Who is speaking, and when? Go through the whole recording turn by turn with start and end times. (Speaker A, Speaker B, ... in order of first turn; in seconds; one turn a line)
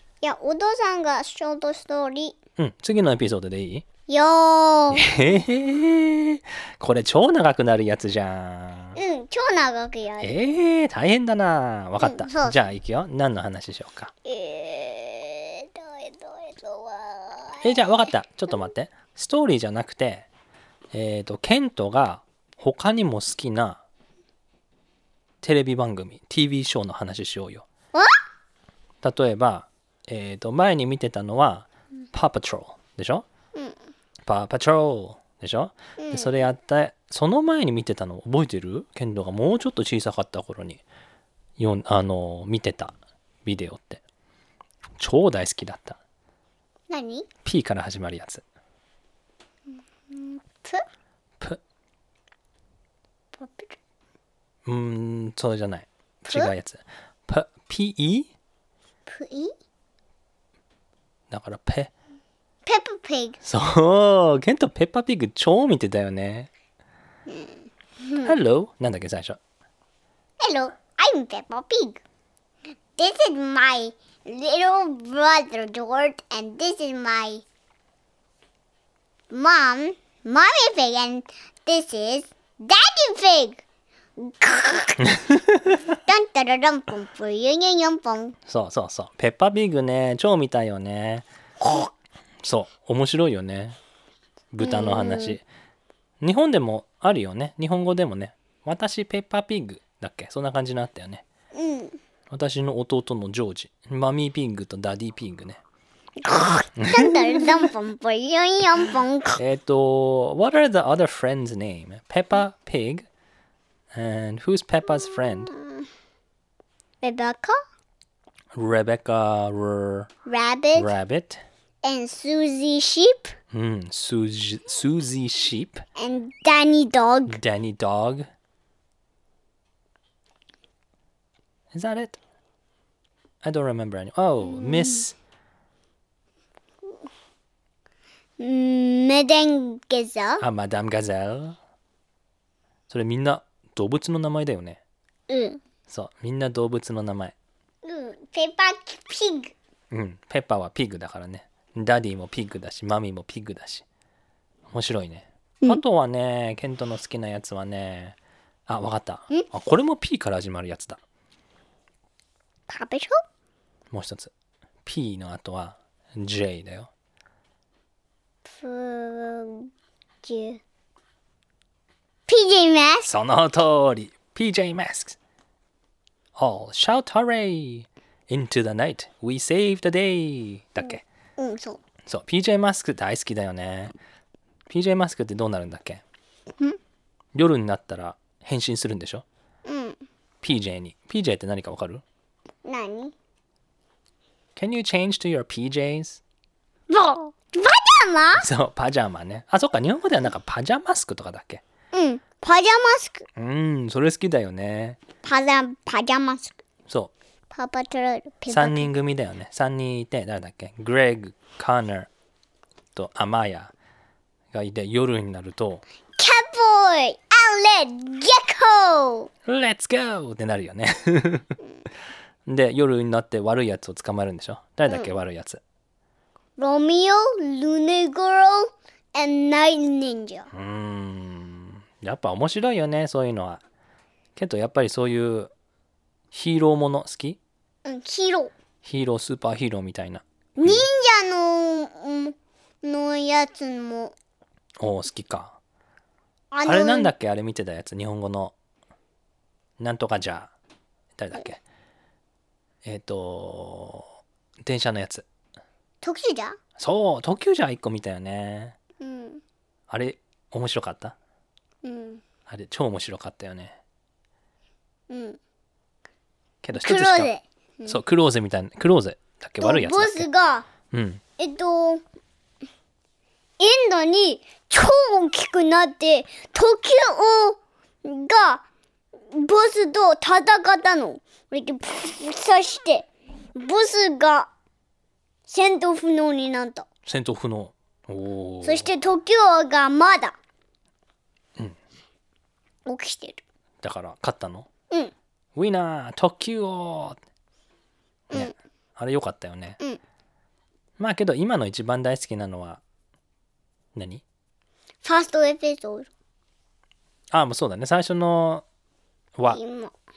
Speaker A: 0.2-2.4
Speaker B: 2.6-3.9
Speaker A: 4.1-5.1
Speaker B: 4.9-9.0
Speaker A: 9.0-10.3
Speaker B: 10.2-14.1
Speaker A: 12.0-12.6
Speaker A: 14.2-17.8
Speaker B: 17.6-20.3
Speaker B: 20.9-23.8
Speaker B: 25.4-27.7
Speaker B: 29.0-33.3
Speaker B: 34.3-40.8
Speaker A: 36.0-36.3
Speaker B: 41.6-42.9
Speaker B: 43.5-44.0
Speaker B: 45.0-46.0
Speaker A: 46.9-47.3
Speaker B: 47.5-48.4
Speaker A: 50.1-50.8
Speaker A: 53.4-53.8
Speaker B: 54.7-58.3
Speaker A: 56.3-56.5
Speaker A: 59.1-59.5
Speaker B: 61.3-61.9
Speaker A: 62.7-63.4
Speaker B: 63.4-66.5
Speaker A: 67.3-68.3
Speaker B: 68.2-69.4
Speaker A: 70.4-72.0
Speaker A: 73.0-77.4
Speaker A: 79.3-83.6
Speaker A: 84.2-85.1
Speaker B: 85.1-85.7
Speaker A: 85.9-88.4
Speaker B: 88.5-91.3
Speaker A: 91.6-91.9
Speaker B: 92.4-93.8
Speaker B: 94.5-95.4
Speaker A: 94.6-95.4
Speaker B: 96.2-101.2
Speaker A: 101.5-102.0
Speaker B: 102.3-105.6
Speaker A: 106.2-109.4
Speaker B: 106.8-107.6
Speaker B: 109.4-113.1
Speaker B: 113.9-115.5
Speaker A: 115.5-115.9
Speaker A: 117.0-117.6
Speaker B: 118.6-120.1
Speaker A: 120.3-120.9
Speaker B: 120.8-121.4
Speaker A: 121.8-123.3
Speaker B: 123.5-125.8
Speaker A: 126.0-127.4
Speaker B: 127.3-128.3
Speaker B: 131.7-132.2
Speaker B: 133.4-135.2
Speaker A: 134.5-135.0
Speaker A: 138.4-140.4
Speaker B: 140.4-141.6
Speaker B: 142.9-144.8
Speaker A: 145.3-145.6
Speaker B: 145.9-147.3
Speaker A: 147.8-149.5
Speaker B: 149.9-153.8
Speaker B: 154.7-161.0
Speaker A: 162.7-163.2
Speaker B: 163.9-164.3
Speaker B: 164.8-166.9
Speaker A: 168.5-169.7
Speaker A: 170.2-170.6
Speaker A: 172.3-173.1
Speaker B: 173.1-175.2
Speaker B: 176.4-181.0
Speaker A: 181.4-181.8
Speaker B: 182.1-184.0
Speaker B: 184.7-186.0
Speaker B: 187.3-189.2
Speaker A: 189.7-190.0
Speaker B: 190.4-192.0
Speaker A: 192.7-193.1
Speaker B: 194.6-196.2
Speaker A: 196.9-198.5
Speaker B: 198.3-201.6
Speaker A: 201.9-203.3
Speaker B: 203.4-205.0
Speaker A: 205.2-206.6
Speaker A: 207.5-208.9
Speaker B: 208.5-212.1
Speaker B: 212.9-213.7
Speaker B: 214.5-215.8
Speaker A: 216.2-219.3
Speaker B: 219.5-221.5
Speaker B: 222.5-225.6
Speaker A: 226.6-230.5
Speaker B: 230.5-233.6
Speaker B: 234.4-235.5
Speaker B: 236.3-237.4
Speaker A: 237.8-238.5
Speaker B: 238.8-240.9
Speaker A: 240.6-244.2
Speaker B: 244.8-245.6
Speaker A: 246.5-247.1
Speaker B: 246.7-248.5
Speaker B: 249.8-250.5
Speaker B: 251.2-251.6
Speaker B: 252.8-255.3
Speaker A: 256.0-256.6
Speaker B: 256.8-258.8
Speaker A: 259.0-259.4
Speaker B: 259.9-261.1
Speaker A: 261.8-262.2
Speaker B: 262.5-263.8
Speaker A: 265.1-265.4
Speaker B: 266.6-267.3
Speaker A: 266.7-268.0
Speaker B: 267.9-270.3
Speaker A: 269.6-270.7
Speaker B: 270.9-271.2
Speaker A: 271.4-272.0
Speaker A: 273.6-278.6
Speaker A: 279.3-284.5
Speaker A: 285.5-286.9
Speaker B: 287.1-288.9
Speaker A: 288.6-290.4
Speaker A: 292.9-293.4
Speaker B: 293.8-294.7
Speaker B: 295.6-297.2
Speaker B: 298.3-299.8
Speaker B: 301.0-302.8
Speaker B: 303.9-304.2
Speaker A: 305.0-306.1
Speaker B: 307.3-308.6
Speaker A: 309.5-309.9